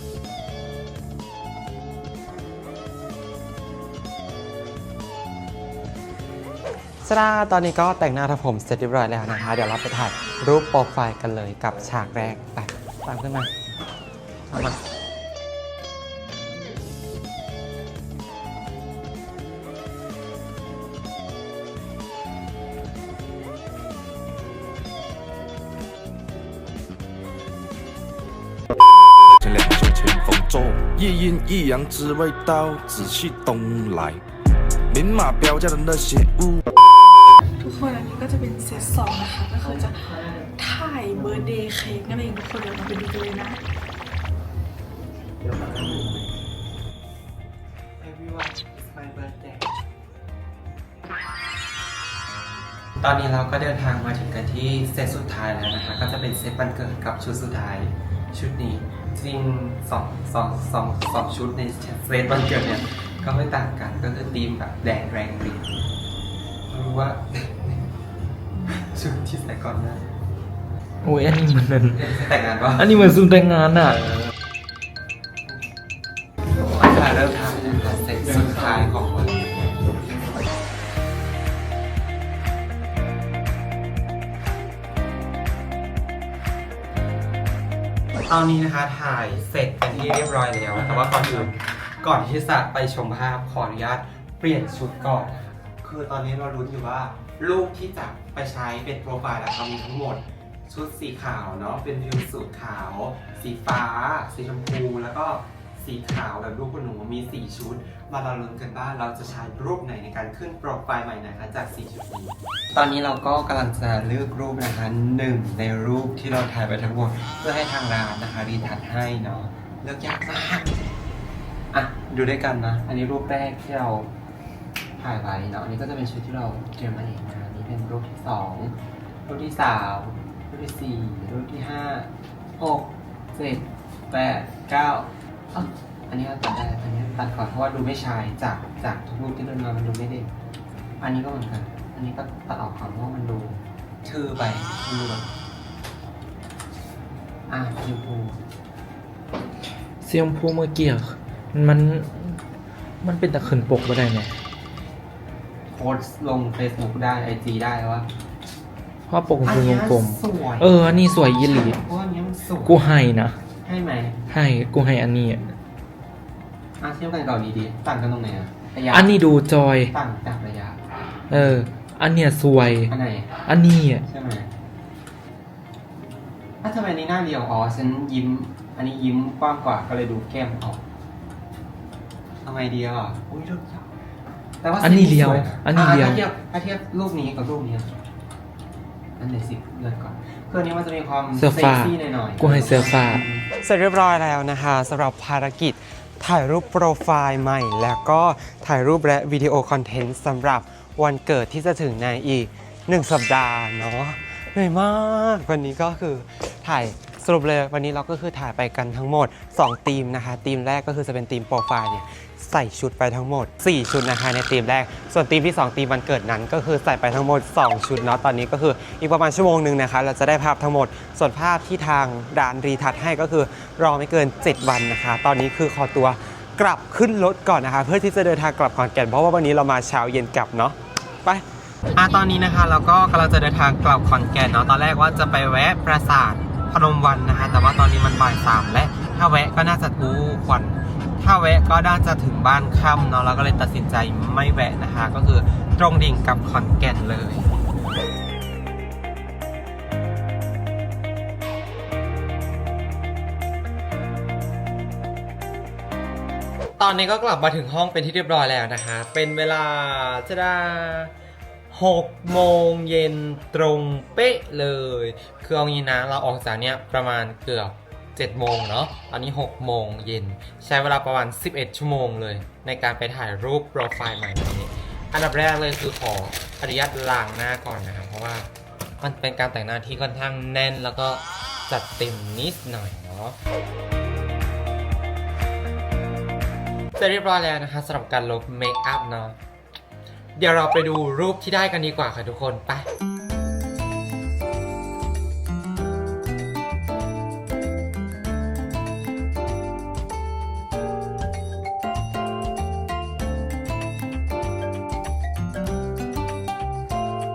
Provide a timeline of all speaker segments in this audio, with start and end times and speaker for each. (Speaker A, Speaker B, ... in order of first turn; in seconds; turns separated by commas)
Speaker A: 7.0-13.5, Speaker A: 14.5-14.8, Speaker B: 29.4-34.2, Speaker B: 34.9-36.6, Speaker C: 37.6-43.6, Speaker A: 39.6-40.5, Speaker A: 41.1-41.5, Speaker A: 45.4-46.2, Speaker A: 48.0-49.7, Speaker A: 53.0-65.7, Speaker A: 66.7-67.8, Speaker A: 68.7-70.0, Speaker D: 71.0-72.2, Speaker A: 71.9-72.9, Speaker D: 72.7-74.0, Speaker A: 76.6-79.7, Speaker A: 88.2-120.8, Speaker D: 90.8-91.5, Speaker A: 121.7-124.1, Speaker A: 125.0-128.7, Speaker A: 129.3-140.3, Speaker A: 141.0-145.3, Speaker A: 147.5-148.4, Speaker D: 150.0-152.4, Speaker D: 153.0-154.4, Speaker A: 155.7-158.1, Speaker D: 159.1-161.8, Speaker A: 159.4-162.8, Speaker D: 162.7-163.4, Speaker A: 163.6-164.2, Speaker D: 164.3-165.5, Speaker A: 166.8-169.2, Speaker D: 168.9-169.9, Speaker A: 169.9-170.8, Speaker D: 171.3-172.9, Speaker A: 171.3-171.6, Speaker A: 172.9-173.3, Speaker D: 173.4-174.0, Speaker A: 174.0-174.5, Speaker A: 176.6-180.8, Speaker A: 182.4-183.9, Speaker A: 184.6-187.9, Speaker D: 184.8-186.2, Speaker A: 189.2-231.4, Speaker D: 191.3-193.2, Speaker A: 231.9-247.5, Speaker A: 256.8-261.1, Speaker A: 261.7-278.5, Speaker A: 279.0-283.4, Speaker A: 287.0-289.4, Speaker A: 290.4-292.9